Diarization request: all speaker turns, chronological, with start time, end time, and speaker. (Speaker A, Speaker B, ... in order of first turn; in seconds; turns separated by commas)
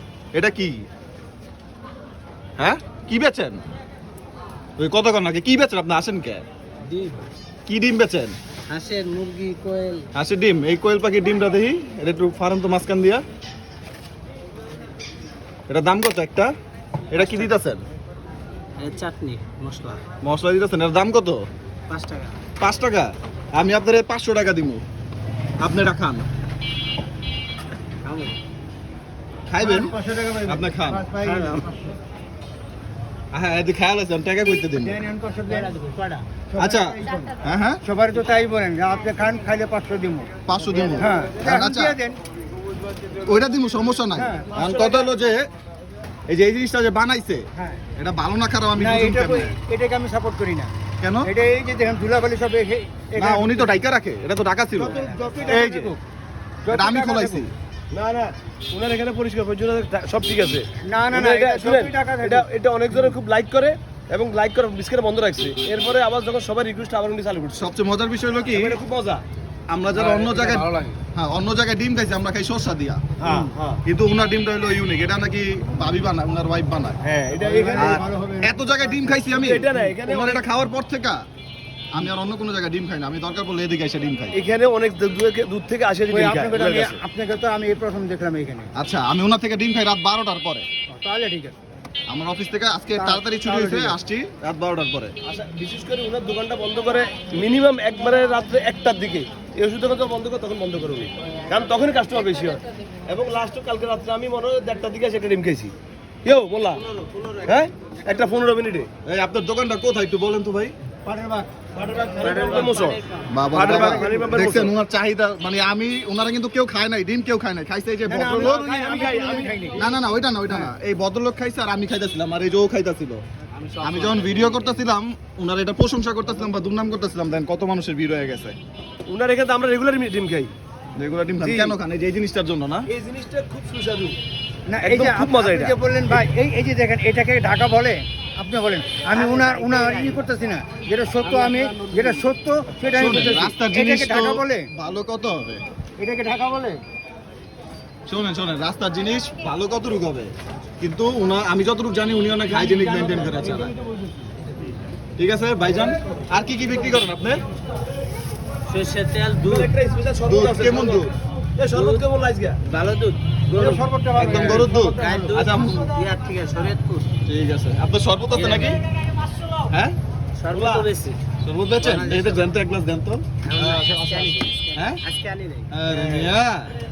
Speaker A: 0.3-0.8, Speaker A: 2.6-3.6, Speaker A: 4.8-6.4, Speaker B: 6.8-7.2, Speaker A: 7.7-8.3, Speaker B: 8.7-10.1, Speaker A: 10.1-13.2, Speaker A: 15.7-16.5, Speaker A: 17.1-17.8, Speaker B: 18.8-20.0, Speaker A: 20.2-21.5, Speaker B: 21.9-22.4, Speaker A: 22.6-24.8, Speaker A: 25.6-26.3, Speaker B: 28.0-28.3, Speaker A: 29.5-29.9, Speaker C: 29.6-32.0, Speaker A: 30.5-31.0, Speaker B: 31.2-31.6, Speaker A: 33.3-35.0, Speaker C: 34.8-35.8, Speaker B: 35.6-36.2, Speaker C: 36.5-40.3, Speaker A: 36.6-37.8, Speaker A: 40.5-42.0, Speaker C: 41.0-42.2, Speaker A: 43.2-45.5, Speaker C: 44.2-44.6, Speaker A: 46.3-49.6, Speaker C: 47.6-47.8, Speaker C: 48.8-50.7, Speaker A: 51.0-51.3, Speaker C: 51.2-53.8, Speaker A: 53.2-56.0, Speaker C: 54.8-56.0, Speaker D: 55.1-55.4, Speaker C: 56.6-57.5, Speaker A: 56.7-57.5, Speaker D: 57.9-67.7, Speaker C: 60.8-62.5, Speaker A: 67.5-68.8, Speaker D: 68.5-69.2, Speaker A: 69.7-73.1, Speaker D: 70.0-71.0, Speaker D: 73.2-73.8, Speaker A: 73.8-77.0, Speaker D: 77.0-78.0, Speaker C: 77.4-79.7, Speaker A: 77.8-81.2, Speaker D: 79.4-80.5, Speaker A: 81.9-84.4, Speaker D: 84.3-87.0, Speaker C: 86.1-88.7, Speaker A: 88.8-90.7, Speaker C: 90.9-91.6, Speaker A: 92.1-95.2, Speaker C: 93.0-94.0, Speaker D: 95.2-105.7, Speaker D: 106.2-106.8, Speaker D: 107.5-108.9, Speaker A: 109.0-110.7, Speaker C: 111.0-112.6, Speaker D: 111.8-113.0, Speaker B: 112.2-113.2, Speaker A: 113.3-118.6, Speaker D: 113.5-114.7, Speaker C: 113.6-114.3, Speaker C: 118.1-119.9, Speaker D: 118.3-119.8, Speaker A: 119.8-123.2, Speaker A: 123.8-128.6, Speaker B: 124.0-124.7, Speaker D: 129.1-130.5, Speaker A: 131.0-132.9, Speaker D: 131.4-131.8, Speaker D: 132.9-134.2, Speaker C: 134.7-144.7, Speaker D: 134.8-136.1, Speaker B: 139.2-140.2, Speaker B: 141.5-142.1, Speaker A: 142.9-145.6, Speaker D: 143.0-143.5, Speaker C: 146.0-146.8, Speaker A: 148.1-153.7, Speaker D: 152.5-153.7, Speaker C: 152.9-153.2, Speaker A: 155.2-157.4, Speaker B: 158.7-159.7, Speaker D: 159.4-161.1, Speaker A: 160.3-161.1, Speaker D: 161.6-162.6, Speaker A: 161.7-162.0, Speaker B: 162.7-167.1, Speaker C: 163.5-165.3, Speaker A: 164.2-165.9, Speaker A: 167.2-168.8, Speaker B: 168.3-168.8, Speaker A: 169.7-170.0, Speaker B: 170.4-171.2, Speaker D: 170.5-170.9, Speaker A: 171.4-175.0, Speaker B: 171.8-172.5, Speaker B: 173.4-175.7, Speaker A: 175.7-176.7, Speaker D: 176.0-176.3